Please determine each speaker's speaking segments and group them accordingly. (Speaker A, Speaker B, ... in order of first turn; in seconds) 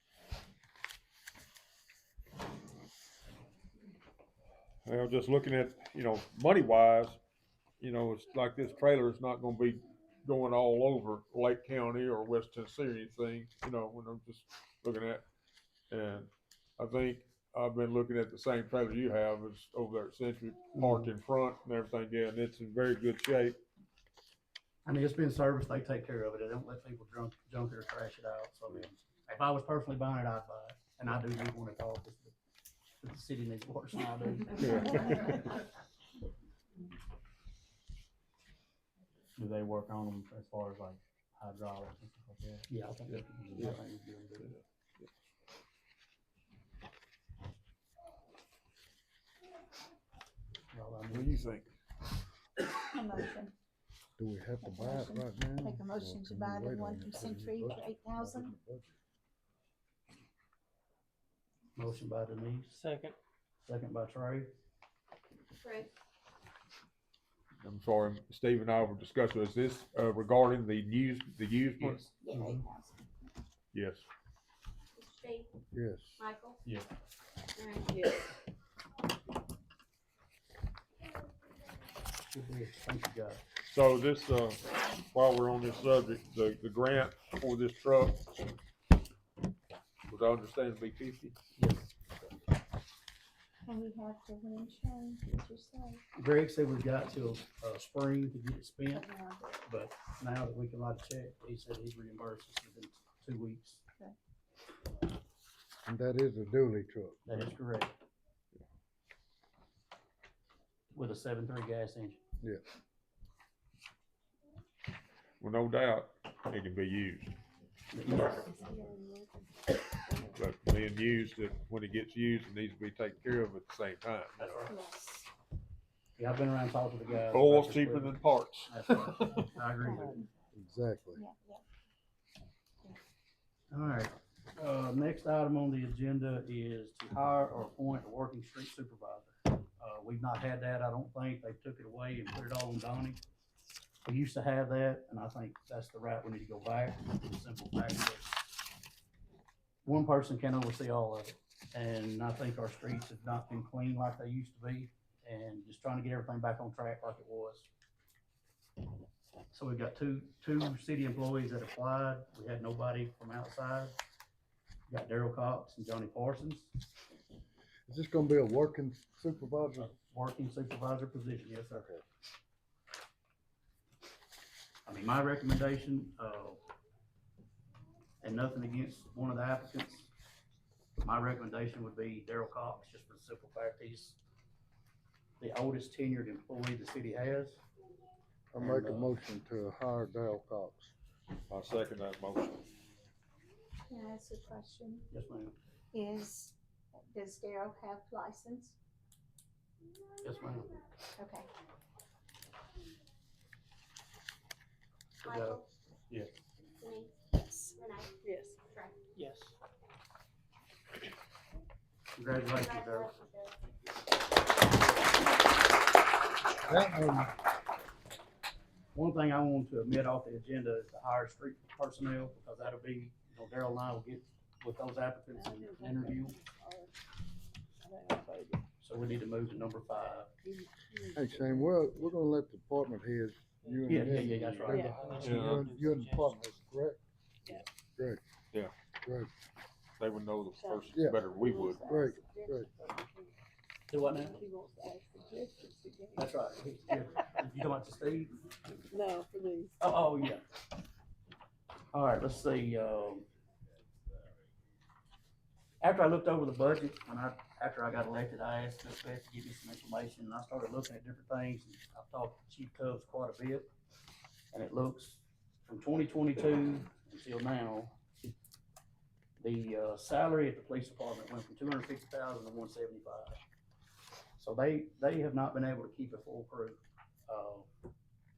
Speaker A: 4.8-7.2, 7.8-15.2, 15.9-23.6, 34.7-35.4, 44.4-45.0, 51.1-51.7, 67.6-72.1, 73.7-74.1, 83.7-88.3, 90.0-91.4, 115.4-117.4, 120.3-124.7, 127.3-129.5, 191.5-192.7, 235.2-235.7, 240.0-241.9
Speaker B: 24.9-32.3, 33.0-35.4, 39.4-40.8, 41.5-44.5, 50.7-51.5, 61.8-62.7, 63.7-64.5, 71.8-72.5, 82.3-83.4, 91.6-92.2, 96.2-99.1, 99.6-103.8, 107.3-107.9, 110.9-112.2, 117.9-118.5, 124.4-124.7, 126.2-130.2, 133.7-143.2, 144.1-148.4, 149.8-157.7, 159.5-164.0, 164.9-166.7, 169.9-172.0, 174.9-176.6, 178.2-180.1, 181.0-184.2, 185.4-187.6, 188.6-189.1, 195.1-195.6, 200.2-200.8, 205.2-205.6, 212.2-213.2, 218.9-226.4, 228.8-230.3, 233.9-235.3, 243.9-244.4, 246.2-248.4, 249.8-250.5, 251.9-253.3, 255.8-263.7, 264.5-267.9, 269.4-273.4, 274.4-277.7
Speaker C: 40.3-40.9, 235.1-236.3
Speaker D: 52.9-53.5, 54.6-58.5, 72.2-73.0, 93.7-96.0, 98.9-99.6, 124.7-125.3, 129.8-130.2, 131.2-131.6, 193.9-195.1, 195.9-198.8, 201.2-201.5, 207.4-207.7
Speaker E: 54.2-58.9, 75.7-76.2, 105.9-107.2, 130.5-131.2, 167.9-170.0, 188.5-190.9, 216.7-217.3, 231.1-237.0, 237.9-238.2, 239.1-239.3, 240.9-241.2, 241.8-242.7
Speaker F: 65.6-65.9, 75.0-75.5, 76.2-76.6, 77.6-78.1, 205.2-205.7, 206.8-209.1, 212.4-213.7, 214.4-215.1
Speaker G: 77.9-78.3, 118.3-120.4, 208.2-208.6, 225.3-226.9, 227.8-228.7, 230.4-232.0, 234.7-235.1, 240.6-243.3, 244.0-246.3, 246.9-247.4, 248.8-249.8